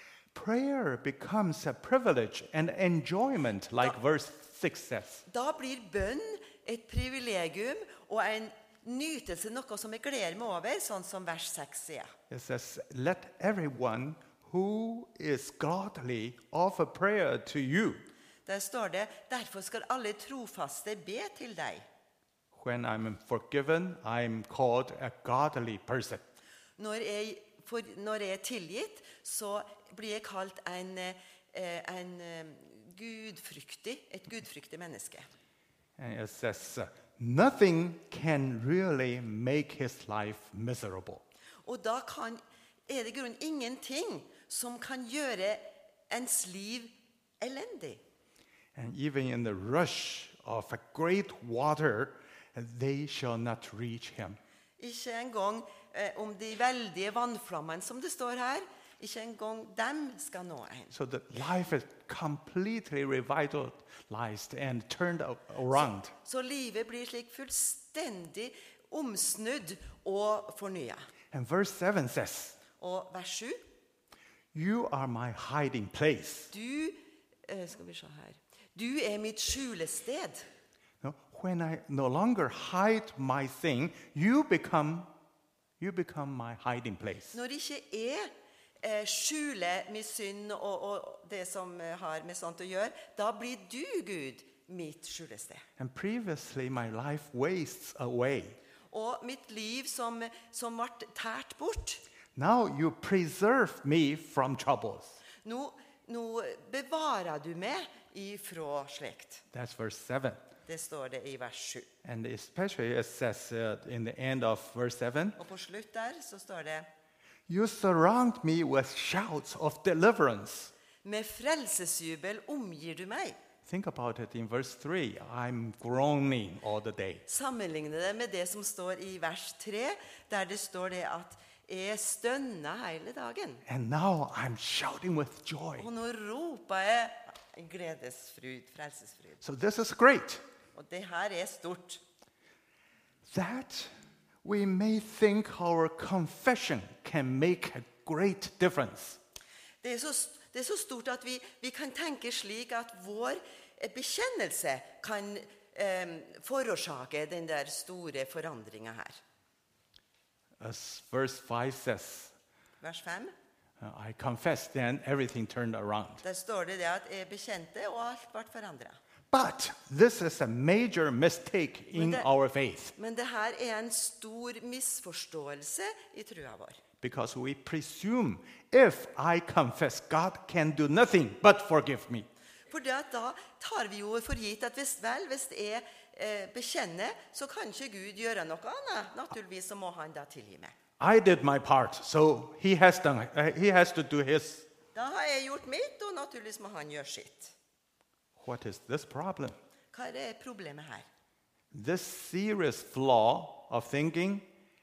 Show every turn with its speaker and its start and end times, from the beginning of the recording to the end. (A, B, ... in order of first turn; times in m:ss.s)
0:00.3-0:05.2 A
0:05.3-0:12.1 B
0:12.3-0:18.0 A
0:18.4-0:21.8 B
0:22.5-0:26.2 A
0:26.8-0:35.3 B
0:36.0-0:41.2 A
0:41.6-0:48.0 B
0:48.7-0:54.4 A
0:54.8-1:00.9 B
1:00.9-1:06.1 A
1:06.1-1:11.0 B
1:11.3-1:12.6 A
1:12.8-1:13.6 B
1:14.5-1:16.5 A
1:16.5-1:20.4 B
1:21.0-1:25.1 A
1:25.8-1:27.3 A
1:27.3-1:28.3 B
1:28.8-1:35.6 B
1:35.8-1:38.6 A
1:38.9-1:42.0 B
1:42.4-1:45.2 A
1:45.4-1:49.4 B
1:49.5-1:50.4 A
1:50.7-1:51.9 B
1:52.0-1:55.4 A
1:55.4-1:56.9 B
1:57.5-2:00.7 A
2:01.0-2:03.4 B
2:03.6-2:07.2 A
2:07.3-2:13.6 B
2:13.7-2:15.9 A
2:15.8-2:19.4 B
2:19.4-2:20.4 A
2:20.7-2:22.0 B
2:23.2-2:23.9 A
2:24.4-2:29.2 A
2:29.8-2:39.2 B
2:40.6-2:42.3 A
2:42.8-2:43.3 B
2:43.8-2:46.2 A
2:46.2-2:49.0 B
2:49.3-2:52.9 A
2:51.9-2:52.3 B
2:52.9-2:56.8 B
2:57.0-3:02.3 A
3:02.7-3:10.7 B
3:11.0-3:14.7 A
3:14.9-3:17.5 B
3:18.4-3:19.5 A
3:19.9-3:21.1 B
3:21.7-3:24.5 A